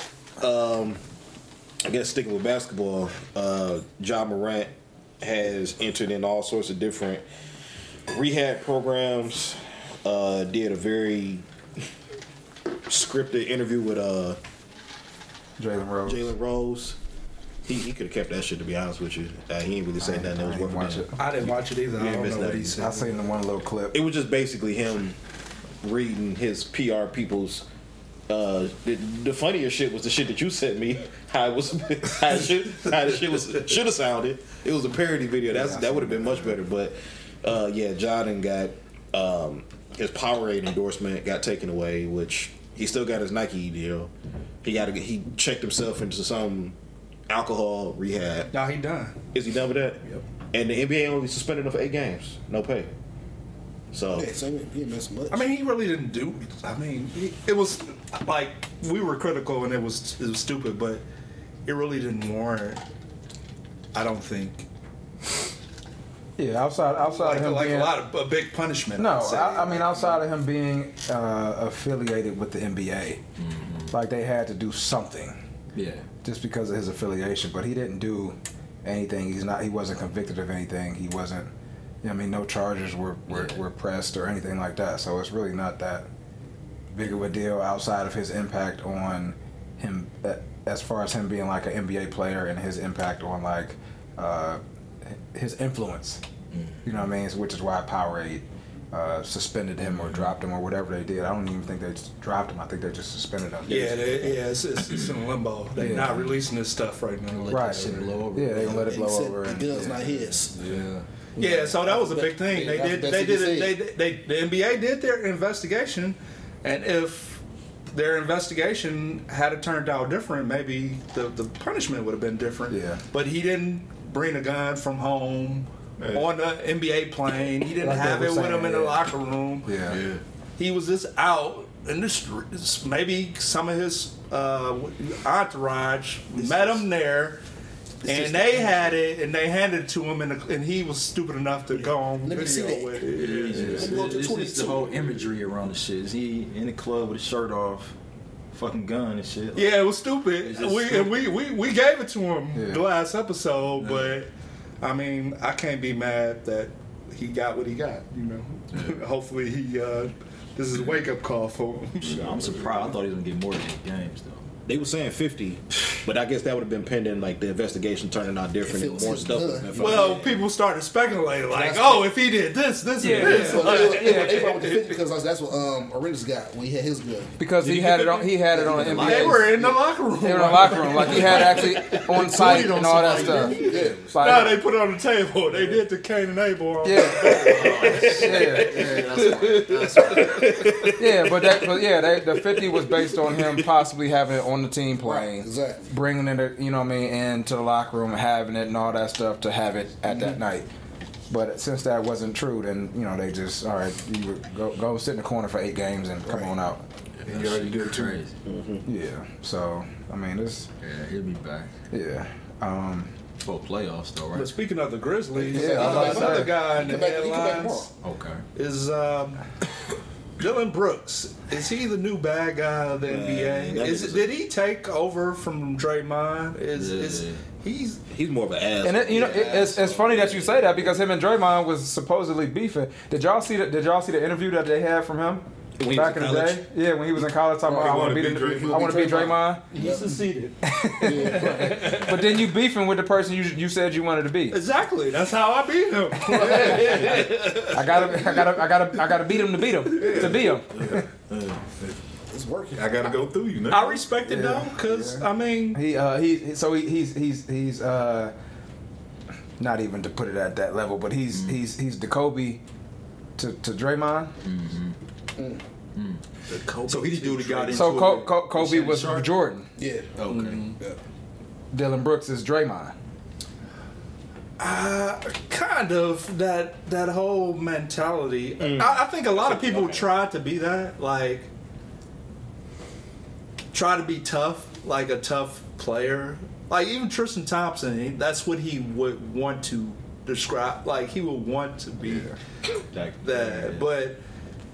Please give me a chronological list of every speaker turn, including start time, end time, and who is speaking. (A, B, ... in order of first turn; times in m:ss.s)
0:00.4-0:01.0 A
0:01.8-0:07.2 A
0:08.1-0:11.4 A
0:12.9-0:14.4 A
0:15.6-0:16.3 B
0:16.0-0:17.0 A
0:17.7-0:22.9 A
0:20.0-0:21.2 B
0:21.2-0:23.1 C
0:22.8-0:24.0 B
0:23.9-0:25.2 A
0:25.8-0:27.6 A
0:28.3-0:44.1 A
0:35.5-0:36.4 B
0:44.6-0:46.8 A
0:47.3-0:48.5 A
0:48.5-0:49.2 C
0:49.3-0:52.9 A
0:53.9-0:54.3 A
0:54.1-0:55.5 D
0:55.3-1:01.0 C
1:01.7-1:02.8 C
1:03.9-1:04.6 C
1:06.4-1:08.0 B
1:07.0-1:10.2 C
1:09.0-1:13.2 B
1:13.4-1:13.9 E
1:13.9-1:15.4 B
1:15.7-1:16.1 E
1:16.2-1:21.5 B
1:22.0-1:26.1 B
1:23.3-1:23.6 E
1:26.9-1:36.2 B
1:36.5-1:36.8 E
1:36.8-1:44.0 B
1:39.9-1:40.3 E
1:43.7-1:48.3 C
1:45.8-1:46.1 B
1:45.9-1:46.2 E
1:47.3-1:49.0 E
1:47.5-1:50.0 B
1:48.6-1:50.6 D
1:50.1-1:51.1 E
1:51.4-1:51.7 B
1:51.4-2:09.7 C
1:51.4-1:53.8 D
2:02.7-2:03.0 B
2:06.0-2:06.3 F
2:07.8-2:09.0 B
2:09.6-2:10.0 B
2:09.8-2:10.2 E
2:10.6-2:17.4 C
2:18.0-2:18.9 D
2:18.0-2:24.0 C
2:22.2-2:23.1 D
2:23.0-2:28.0 E
2:23.6-2:24.9 D
2:28.5-2:29.8 E
2:29.6-2:34.3 C
2:30.4-2:31.3 E
2:32.5-2:32.8 B
2:33.8-2:34.1 E
2:34.8-2:42.9 C
2:38.7-2:39.0 E
2:42.0-2:44.4 E
2:44.7-2:50.4 A
2:48.6-2:50.2 D
2:49.8-2:55.0 C
2:51.5-2:52.1 D
2:53.0-2:54.5 B
2:53.1-2:57.3 D
2:57.4-3:03.6 B
2:57.6-2:59.6 E
2:58.5-2:59.8 D
2:59.0-3:10.7 C
3:01.0-3:01.7 E
3:02.3-3:04.3 E
3:03.6-3:04.0 D
3:04.1-3:04.6 B
3:06.8-3:09.4 B
3:07.2-3:10.8 E
3:10.3-3:11.1 A
3:10.8-3:20.7 B
3:15.0-3:15.8 D
3:20.1-3:20.4 D
3:21.3-3:26.8 B
3:26.2-3:26.5 D
3:27.2-3:28.4 E
3:27.3-3:28.2 F
3:28.4-3:28.8 A
3:28.9-3:30.7 B
3:30.8-3:31.7 E
3:31.9-3:33.1 B
3:33.4-3:34.5 E
3:34.4-3:37.9 C
3:35.4-3:37.9 D
3:35.5-3:36.6 B
3:38.0-3:38.4 E
3:38.6-3:39.4 C
3:40.4-3:48.0 C
3:43.0-3:44.3 A
3:46.7-3:47.4 E
3:48.1-3:50.6 A
3:48.8-3:59.6 B
3:49.3-3:50.2 E
3:55.8-3:56.6 A
3:57.6-3:59.2 F
3:58.5-4:00.2 D
3:59.7-4:00.6 C
4:00.6-4:04.6 B
4:00.9-4:01.9 D
4:01.2-4:01.9 C
4:01.5-4:02.2 E
4:04.5-4:08.4 C
4:06.4-4:07.1 B
4:06.4-4:07.0 F
4:07.0-4:07.6 E
4:07.7-4:11.1 B
4:09.9-4:11.1 F
4:10.8-4:11.6 A
4:12.3-4:13.1 D
4:12.7-4:14.1 F
4:13.7-4:15.8 C
4:14.3-4:18.3 B
4:19.6-4:22.6 B
4:21.3-4:21.6 E
4:23.4-4:24.3 B
4:24.4-4:25.0 E
4:25.4-4:25.6 D
4:26.0-4:29.4 E
4:27.7-4:29.7 B
4:29.8-4:30.1 D
4:30.2-4:30.8 E
4:30.3-4:30.8 C
4:31.7-4:33.0 B
4:34.6-4:41.5 C
4:38.6-4:40.0 A
4:43.7-4:52.3 C
4:52.9-4:53.9 E
4:53.2-4:54.2 C